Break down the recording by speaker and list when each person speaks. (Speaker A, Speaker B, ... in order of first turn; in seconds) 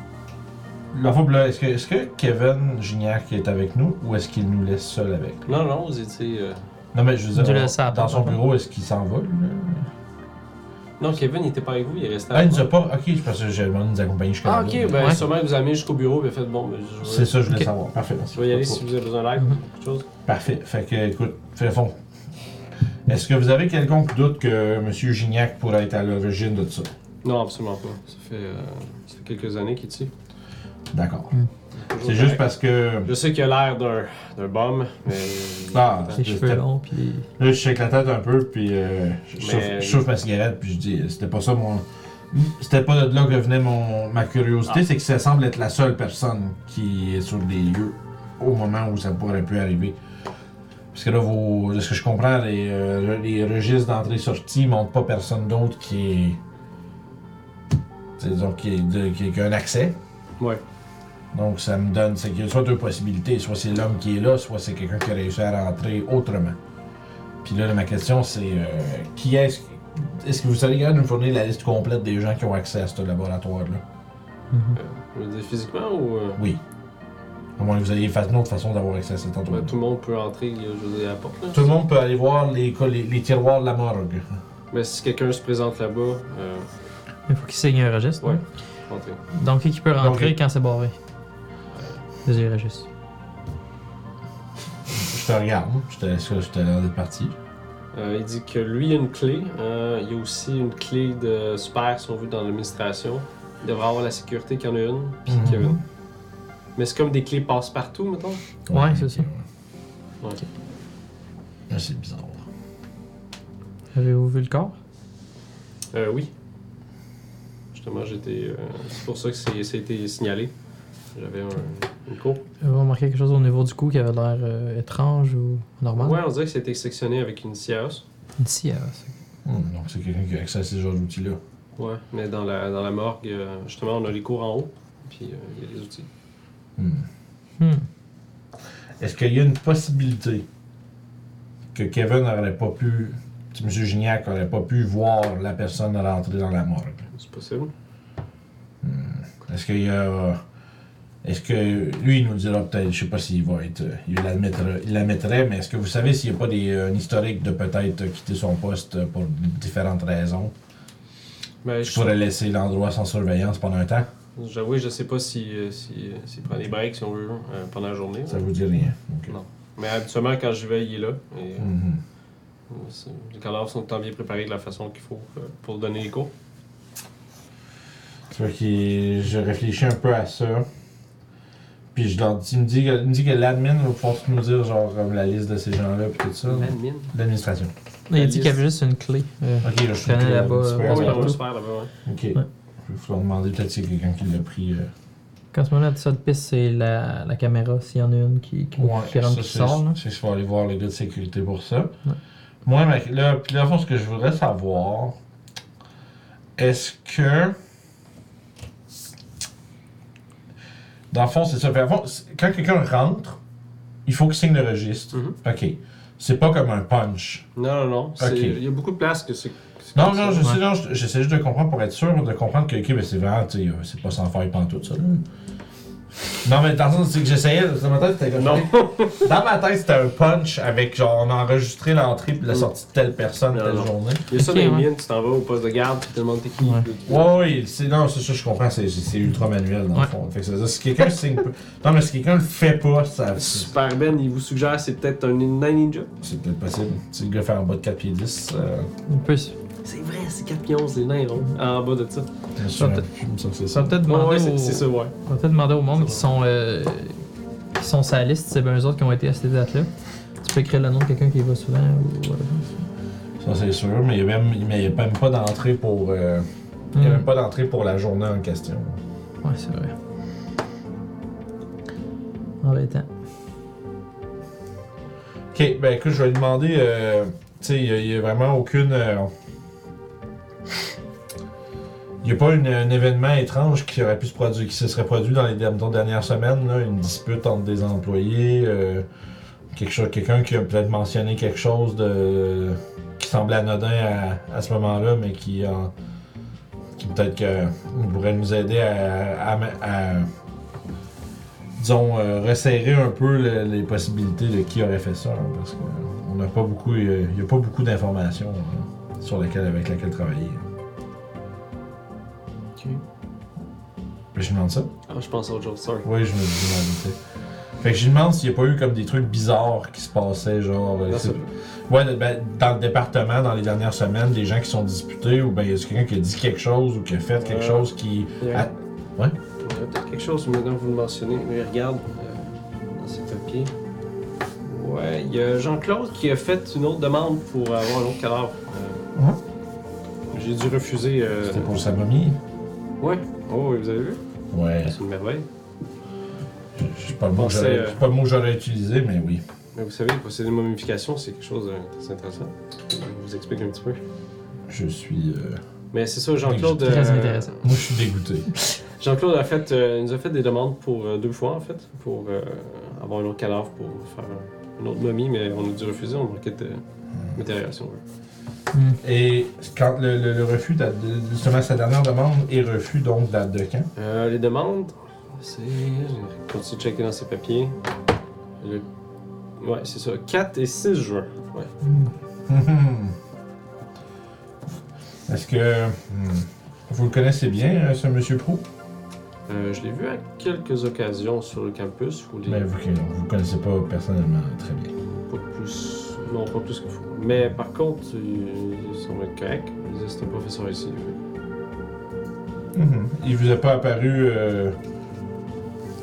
Speaker A: 0.9-5.5, 6.9-9.9, 12.3-15.3, 17.0-18.8, 20.3-22.0, 23.1-26.9, 30.9-31.3, 32.0-33.1, 35.7-36.6, 37.4-50.0, 50.9-56.4, 58.2-60.0, 61.3-66.6, 67.4-73.8, 77.6-79.8, 81.5-84.3, 90.0-90.3, 95.0-97.3, 105.3-105.7, 108.7-109.4, 111.7-112.5, 129.4-131.4, 136.8-137.1, 139.0-140.5, 141.7-147.1, 148.8-150.4, 151.2-160.5, 161.9-164.1, 168.3-169.3, 171.6-172.0, 178.3-180.7, 181.9-187.7, 189.6-191.4, 192.1-194.9, 198.8-201.9, 202.7-205.2, 206.6-207.6, 211.1-213.4, 214.1-217.5, 218.2-218.6, 219.9-225.2, 226.4-234.3, 237.1-243.7, 246.2-248.9, 252.6-254.0, 263.4-269.0, 275.5-279.3, 282.2-289.1, 289.7-295.9, 297.0-300.3, 301.8-310.6, 314.4-314.9, 316.0-317.2, 317.8-329.4, 341.4-342.4, 344.5-344.9, 346.8-349.4, 354.7-355.6, 356.4-356.9, 357.6-358.5, 369.0-373.9, 382.5-383.1, 385.3-388.7, 392.5-394.9, 402.7-404.8
Speaker B: 5.5-6.6, 11.0-12.7, 14.4-17.3, 18.3-20.1, 27.2-30.1, 31.8-32.5, 33.0-36.2, 39.4-40.0, 74.7-76.4, 79.5-81.7, 84.7-86.7, 88.2-89.2, 97.9-105.8, 106.8-108.4, 115.9-116.3, 117.7-120.5, 121.1-122.4, 126.0-128.0, 131.8-136.1, 147.1-147.7, 161.6-162.2, 164.4-168.5, 169.3-171.7, 172.7-176.3, 186.4-187.1, 188.1-188.6, 190.8-191.9, 215.1-215.4, 217.6-220.5, 228.4-229.3, 233.5-237.3, 243.4-246.1, 249.8-252.3, 254.1-255.1, 256.0-256.2, 312.8-313.0, 315.1-316.1, 321.1-321.5, 327.4-328.7, 329.6-333.7, 334.6-339.0, 340.3-341.8, 343.0-344.2, 344.8-345.5, 347.4-348.0, 349.8-354.0, 355.9-357.6, 359.0-366.8, 367.4-368.0, 373.9-377.8, 378.6-378.9, 379.6-381.7, 389.5-392.7, 395.0-401.2
Speaker C: 7.4-8.4, 15.0-15.2, 36.2-37.3, 74.5-74.8, 87.3-88.4, 89.3-91.0, 92.2-92.9, 105.5-105.8, 108.7-109.3, 113.9-114.8, 122.6-126.2, 128.4-129.1, 137.6-137.9, 188.1-191.4, 195.5-200.0, 234.3-234.9, 249.1-249.6, 252.7-253.1, 253.7-257.2, 257.8-259.9, 260.4-262.9, 266.9-267.2, 269.4-269.9, 272.6-273.1, 356.8-357.6, 368.7-369.0, 381.8-382.1